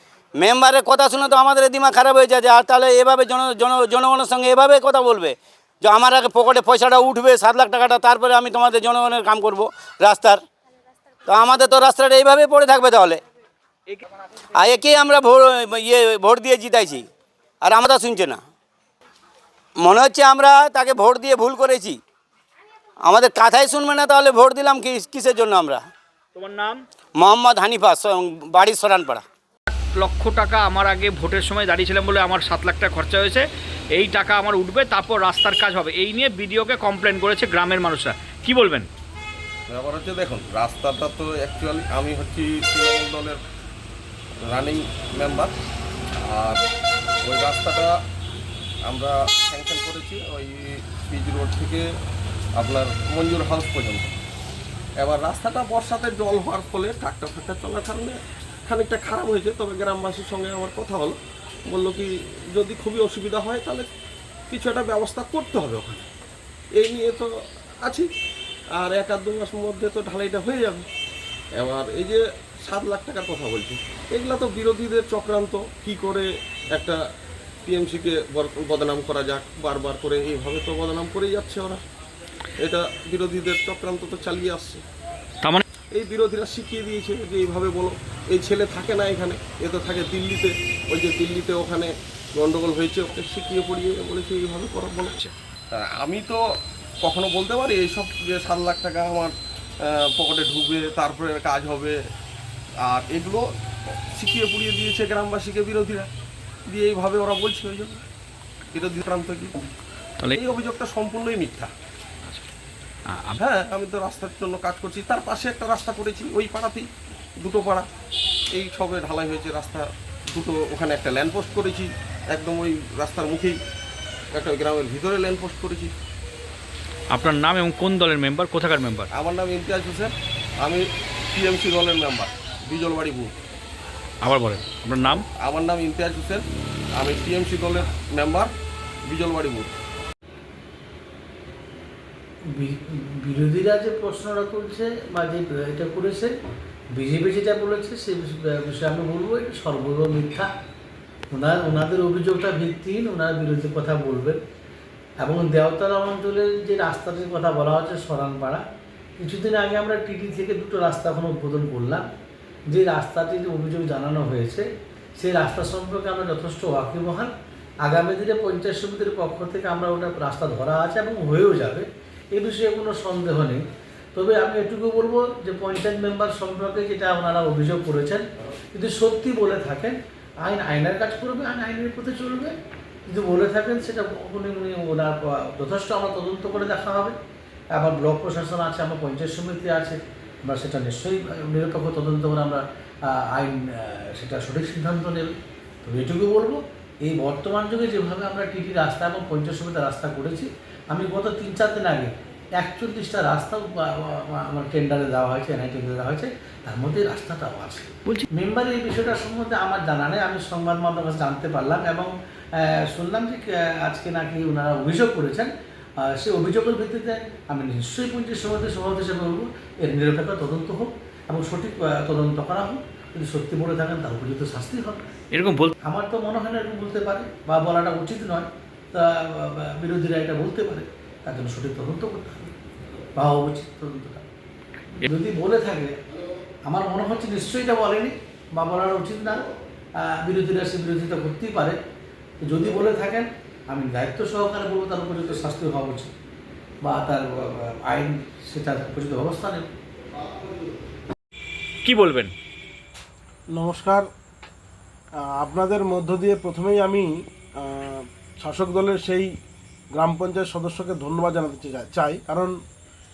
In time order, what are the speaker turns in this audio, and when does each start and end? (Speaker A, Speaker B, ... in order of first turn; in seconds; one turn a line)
Speaker A: 0.4-10.4
Speaker A: 11.3-13.2
Speaker A: 14.6-17.0
Speaker A: 17.6-18.4
Speaker A: 19.8-22.0
Speaker A: 23.1-25.8
Speaker B: 26.3-26.8
Speaker A: 27.2-29.2
Speaker B: 29.7-38.9
Speaker C: 39.7-43.4
Speaker C: 44.4-45.5
Speaker C: 46.3-46.6
Speaker C: 47.2-47.9
Speaker C: 48.9-51.9
Speaker C: 52.6-54.1
Speaker C: 55.0-63.9
Speaker C: 64.5-66.0
Speaker C: 66.8-67.3
Speaker C: 67.8-68.1
Speaker C: 68.8-70.8
Speaker C: 71.6-77.0
Speaker C: 77.7-81.8
Speaker C: 82.6-84.8
Speaker C: 85.9-95.1
Speaker C: 95.7-96.4
Speaker C: 97.0-99.3
Speaker C: 99.8-102.0
Speaker C: 102.8-103.5
Speaker C: 104.1-106.1
Speaker C: 106.7-108.0
Speaker C: 108.7-109.5
Speaker C: 110.3-111.7
Speaker C: 113.3-117.9
Speaker C: 118.5-123.6
Speaker C: 124.3-125.9
Speaker B: 127.1-129.1
Speaker C: 129.1-133.3
Speaker B: 134.2-135.2
Speaker C: 135.3-136.4
Speaker C: 136.9-138.5
Speaker C: 139.1-139.7
Speaker D: 142.5-146.3
Speaker D: 146.9-150.5
Speaker D: 151.3-154.4
Speaker D: 155.2-158.6
Speaker D: 159.2-162.1
Speaker D: 162.7-167.3
Speaker D: 167.8-182.5
Speaker D: 183.1-187.2
Speaker D: 187.7-225.0
Speaker B: 225.3-225.7
Speaker D: 225.8-232.5
Speaker D: 233.2-234.2
Speaker D: 235.0-235.9
Speaker D: 236.6-241.8
Speaker D: 242.4-246.1
Speaker D: 246.8-249.7
Speaker B: 251.8-252.3
Speaker E: 253.5-254.1
Speaker E: 255.3-259.3
Speaker E: 259.9-262.5